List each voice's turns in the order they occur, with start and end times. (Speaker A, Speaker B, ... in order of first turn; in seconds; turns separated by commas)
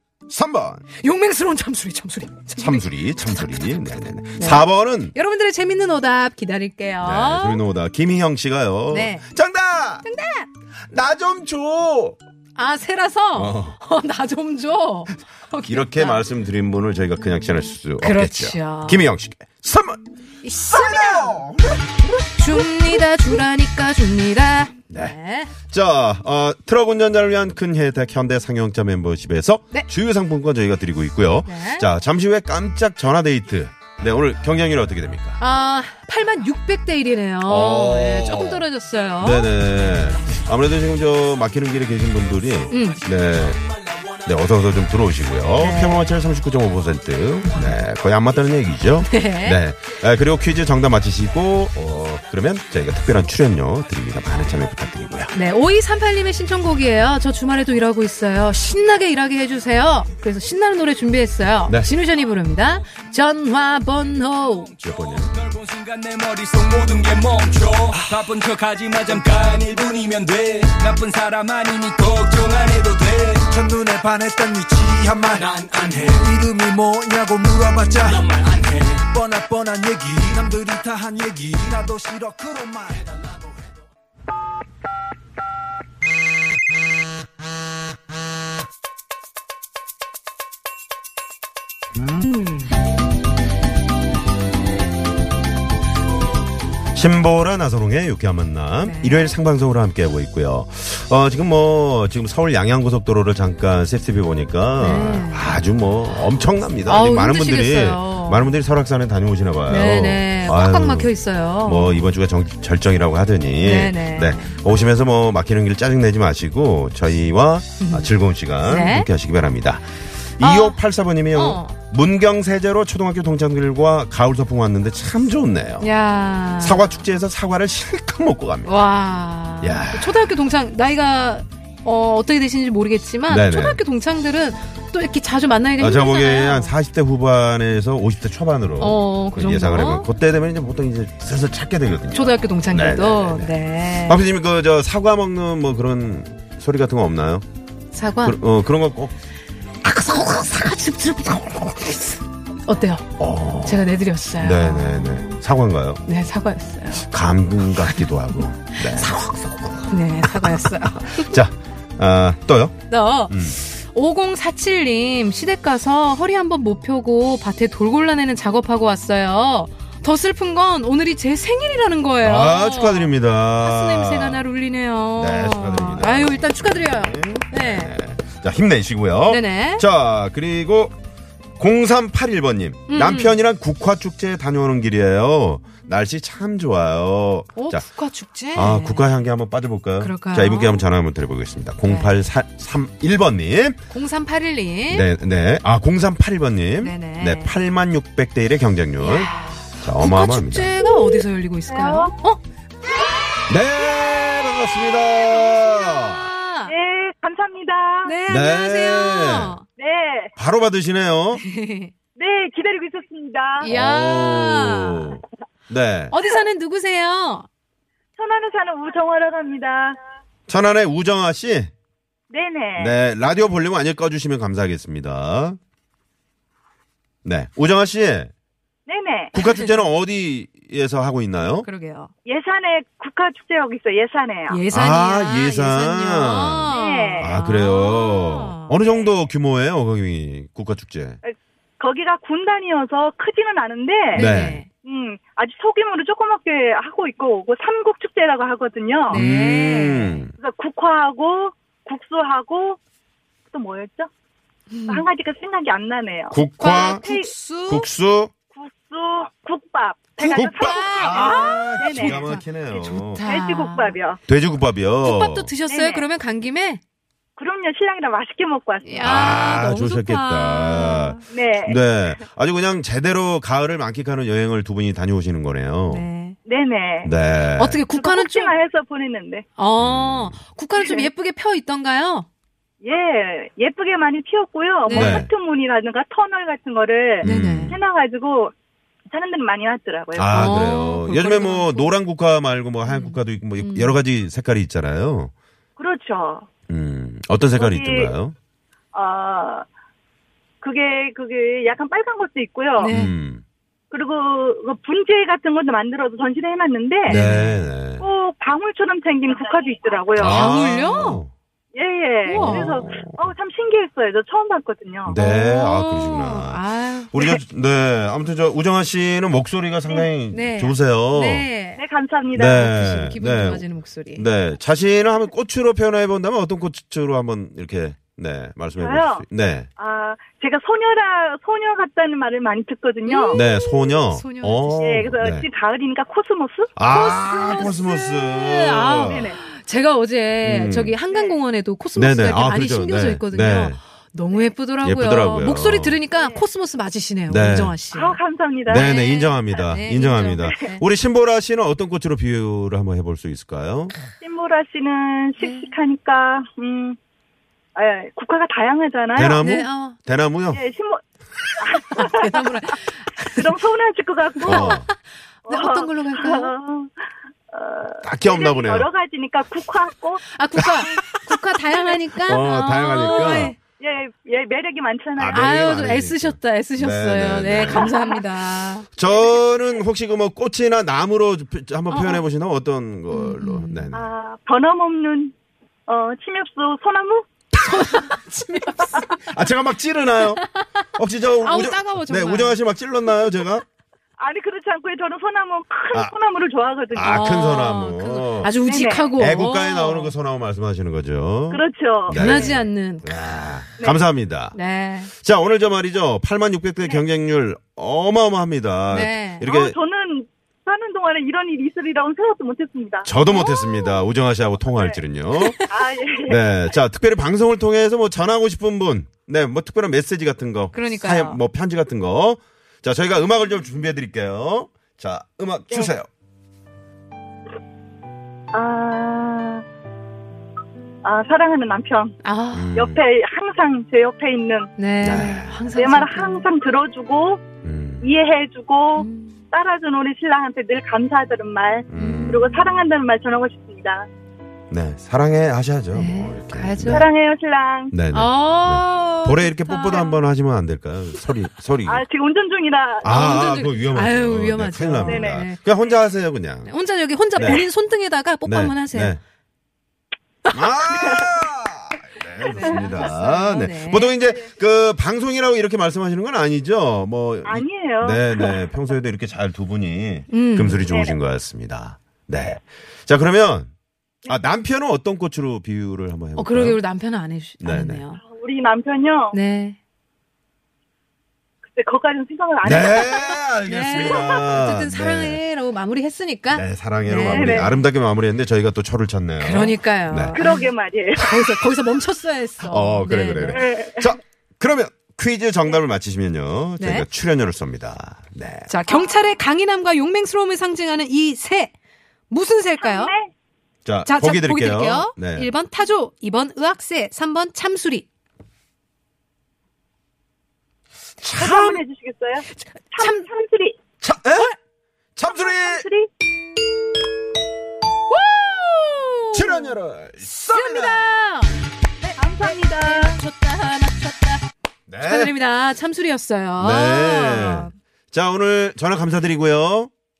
Speaker A: 0.3-0.8, Speaker B: 1.0-3.8, Speaker A: 2.6-5.2, Speaker B: 4.4-7.6, Speaker A: 7.0-10.1, Speaker B: 8.9-9.3, Speaker B: 10.0-10.5, Speaker A: 10.9-12.2, Speaker B: 12.6-16.2, Speaker A: 13.3-13.8, Speaker A: 15.7-20.0, Speaker B: 18.0-19.0, Speaker B: 20.4-21.4, Speaker A: 20.5-23.1, Speaker B: 22.3-25.5, Speaker A: 24.9-25.2, Speaker A: 25.7-35.4, Speaker B: 31.4-31.9, Speaker B: 35.4-39.5, Speaker A: 37.5-38.7, Speaker A: 39.2-43.6, Speaker B: 42.7-43.0, Speaker A: 44.2-55.3, Speaker B: 45.6-46.1, Speaker B: 47.5-47.7, Speaker B: 49.0-49.6, Speaker B: 55.3-64.8, Speaker C: 64.8-73.5, Speaker A: 64.8-65.3, Speaker D: 73.5-78.3, Speaker C: 75.4-76.3, Speaker C: 78.1-79.1, Speaker D: 79.0-83.2, Speaker A: 96.9-111.1, Speaker B: 98.8-99.3, Speaker B: 104.8-105.5, Speaker B: 106.8-108.5, Speaker B: 109.7-112.1, Speaker A: 111.6-119.9, Speaker B: 113.6-114.5, Speaker B: 117.8-118.1, Speaker B: 118.6-119.1, Speaker A: 120.4-125.9, Speaker B: 120.4-120.8, Speaker B: 121.3-121.8, Speaker B: 125.8-126.9, Speaker A: 126.6-128.8, Speaker B: 128.7-136.8, Speaker A: 129.6-130.3, Speaker A: 133.3-133.8, Speaker A: 135.8-147.4, Speaker B: 138.8-140.1, Speaker B: 142.1-144.2, Speaker B: 147.9-148.4, Speaker A: 148.2-149.2, Speaker B: 149.8-155.4, Speaker A: 153.2-153.8, Speaker A: 154.4-156.0, Speaker B: 156.1-157.1, Speaker A: 157.0-159.2, Speaker B: 158.8-161.3, Speaker A: 160.3-162.8, Speaker B: 162.9-177.9, Speaker A: 163.3-163.6, Speaker A: 172.2-174.5, Speaker A: 175.2-181.0, Speaker B: 179.3-179.8, Speaker A: 181.6-187.9, Speaker B: 182.9-183.3, Speaker B: 187.6-189.0, Speaker A: 188.5-193.8, Speaker B: 190.0-190.8, Speaker B: 191.8-192.2, Speaker B: 193.9-195.1, Speaker A: 194.9-200.8, Speaker B: 196.8-197.6, Speaker B: 199.0-202.4, Speaker E: 200.9-202.1, Speaker A: 203.5-206.3, Speaker B: 205.0-206.7, Speaker E: 206.7-208.2, Speaker B: 208.0-209.6, Speaker A: 208.3-209.6, Speaker E: 209.8-210.3, Speaker A: 210.4-211.4, Speaker B: 211.3-211.9, Speaker E: 212.2-213.7, Speaker B: 213.6-215.2, Speaker A: 213.7-216.2, Speaker B: 216.1-217.5, Speaker E: 218.2-220.0, Speaker A: 220.5-221.7, Speaker E: 222.3-222.9, Speaker A: 222.8-225.6, Speaker A: 227.2-228.3, Speaker E: 228.9-229.3, Speaker A: 229.3-231.7, Speaker B: 229.3-229.9, Speaker B: 231.6-232.1, Speaker E: 232.3-234.6, Speaker B: 234.5-238.8, Speaker A: 234.7-241.2, Speaker E: 236.7-237.3, Speaker E: 241.2-244.3, Speaker B: 244.1-244.7, Speaker A: 244.2-244.6, Speaker E: 244.8-249.2, Speaker B: 249.1-250.2, Speaker A: 249.1-250.3, Speaker E: 250.4-252.8, Speaker E: 253.5-254.1, Speaker B: 254.7-255.1, Speaker E: 254.9-257.3, Speaker A: 256.3-257.0, Speaker B: 256.6-257.9, Speaker A: 257.7-258.3, Speaker E: 258.5-262.3, Speaker B: 260.2-263.9, Speaker A: 260.3-263.2, Speaker E: 263.2-264.2, Speaker A: 264.3-265.5, Speaker B: 265.0-266.8, Speaker E: 265.7-266.1, Speaker E: 267.4-269.2, Speaker B: 268.8-271.2, Speaker A: 269.0-276.1, Speaker E: 271.3-272.0, Speaker B: 275.9-276.4, Speaker E: 276.4-277.1, Speaker A: 277.0-277.8, Speaker B: 277.6-278.5, Speaker E: 277.9-279.4, Speaker B: 279.6-282.3, Speaker A: 279.8-280.4, Speaker E: 280.8-281.1, Speaker E: 282.8-288.5, Speaker B: 284.9-285.3, Speaker A: 284.9-285.3, Speaker A: 287.2-287.8, Speaker B: 287.2-287.8, Speaker E: 289.1-290.5, Speaker A: 290.1-295.3, Speaker B: 290.3-291.9, Speaker B: 292.9-294.0, Speaker E: 295.8-296.5, Speaker A: 296.7-298.4, Speaker E: 297.6-298.1, Speaker E: 298.9-299.7, Speaker E: 300.6-302.9, Speaker B: 302.8-303.2, Speaker A: 302.9-303.4, Speaker E: 303.9-307.2, Speaker A: 307.1-308.1, Speaker B: 307.1-307.7, Speaker E: 308.0-310.5, Speaker A: 310.2-311.3, Speaker B: 310.2-311.2, Speaker E: 311.7-315.2, Speaker B: 312.3-312.8, Speaker A: 312.3-313.3, Speaker A: 315.1-321.5, Speaker B: 315.1-317.1, Speaker B: 320.3-321.8, Speaker E: 321.8-322.6, Speaker A: 322.3-329.7, Speaker B: 322.5-324.3, Speaker E: 328.8-329.3, Speaker E: 329.8-333.4, Speaker B: 333.1-335.1, Speaker A: 333.3-335.5, Speaker E: 334.8-338.1, Speaker A: 336.8-339.3, Speaker B: 336.9-348.2, Speaker E: 339.0-339.4, Speaker A: 340.4-341.0, Speaker E: 341.1-341.4, Speaker A: 341.9-343.8, Speaker A: 344.8-346.0, Speaker E: 346.1-346.4, Speaker A: 347.3-347.8, Speaker E: 347.9-349.0, Speaker A: 348.7-353.9, Speaker B: 348.7-350.8, Speaker E: 354.2-357.0, Speaker B: 355.4-355.7, Speaker E: 357.8-359.4, Speaker A: 359.1-360.6, Speaker B: 359.4-360.0, Speaker E: 360.5-361.0, Speaker E: 361.6-362.5, Speaker B: 361.9-363.5, Speaker E: 363.4-364.8, Speaker B: 364.4-366.5, Speaker A: 364.4-364.9, Speaker E: 365.5-367.0, Speaker E: 367.5-370.2, Speaker A: 368.0-368.9, Speaker B: 370.3-373.6, Speaker A: 370.6-371.1, Speaker A: 372.2-373.5, Speaker E: 373.0-375.5, Speaker A: 375.2-377.9, Speaker B: 375.3-378.9, Speaker E: 377.7-378.2, Speaker A: 379.0-384.1, Speaker E: 379.0-379.4, Speaker B: 381.9-382.2, Speaker B: 383.1-383.9, Speaker E: 383.9-385.3, Speaker E: 385.9-387.3, Speaker B: 387.6-389.3, Speaker A: 387.6-393.6, Speaker B: 390.2-392.6, Speaker E: 394.2-397.5, Speaker A: 396.9-398.5, Speaker B: 397.0-400.1, Speaker E: 398.6-399.2, Speaker A: 399.2-404.6, Speaker E: 401.5-402.6, Speaker B: 402.1-403.1, Speaker B: 404.5-405.1, Speaker A: 405.2-409.8, Speaker B: 408.9-409.4, Speaker E: 409.4-413.1, Speaker A: 413.1-415.6, Speaker B: 413.3-414.0, Speaker E: 414.7-415.0, Speaker E: 415.7-416.4, Speaker A: 416.3-426.1, Speaker B: 420.7-421.4, Speaker E: 428.5-429.6, Speaker E: 431.0-432.2, Speaker B: 432.2-432.8, Speaker A: 432.5-433.0, Speaker E: 432.8-434.7, Speaker B: 434.8-436.5, Speaker A: 435.0-435.6, Speaker E: 435.7-437.4, Speaker A: 437.6-438.1, Speaker E: 438.0-444.1, Speaker B: 438.9-439.4, Speaker A: 441.9-442.5, Speaker B: 442.0-442.7, Speaker A: 444.7-447.1, Speaker B: 445.9-447.1, Speaker E: 446.9-447.9, Speaker A: 447.9-452.1, Speaker B: 448.1-450.2, Speaker E: 451.9-453.2, Speaker A: 453.0-456.7, Speaker B: 453.1-455.6, Speaker E: 455.0-455.5, Speaker B: 456.6-459.2, Speaker A: 457.4-457.7, Speaker A: 458.4-459.2, Speaker A: 460.5-473.7, Speaker B: 462.4-464.1, Speaker E: 462.6-462.9, Speaker E: 467.4-468.7, Speaker B: 470.3-470.8, Speaker E: 470.9-471.2, Speaker A: 474.3-476.8, Speaker B: 476.4-478.2, Speaker A: 477.6-478.0, Speaker E: 478.2-479.4, Speaker B: 479.3-479.8, Speaker E: 481.6-484.4, Speaker A: 482.6-485.4, Speaker B: 483.7-487.8, Speaker A: 486.5-490.4, Speaker E: 487.3-487.8, Speaker B: 489.4-490.6, Speaker E: 490.4-491.6, Speaker B: 491.2-493.7, Speaker A: 492.6-498.7, Speaker E: 493.5-494.1, Speaker B: 496.8-497.1, Speaker B: 498.7-501.7, Speaker E: 498.9-499.2, Speaker B: 502.3-503.1, Speaker E: 502.8-503.3, Speaker A: 503.9-505.5, Speaker B: 504.0-508.1, Speaker A: 511.2-511.8, Speaker E: 511.4-513.8, Speaker B: 512.5-513.2, Speaker A: 514.0-514.5, Speaker A: 515.2-515.9, Speaker E: 515.2-516.1, Speaker B: 518.1-519.8, Speaker A: 519.3-521.2, Speaker B: 520.3-524.5, Speaker E: 522.2-523.2, Speaker A: 524.9-525.4, Speaker B: 525.0-527.7, Speaker A: 526.6-529.9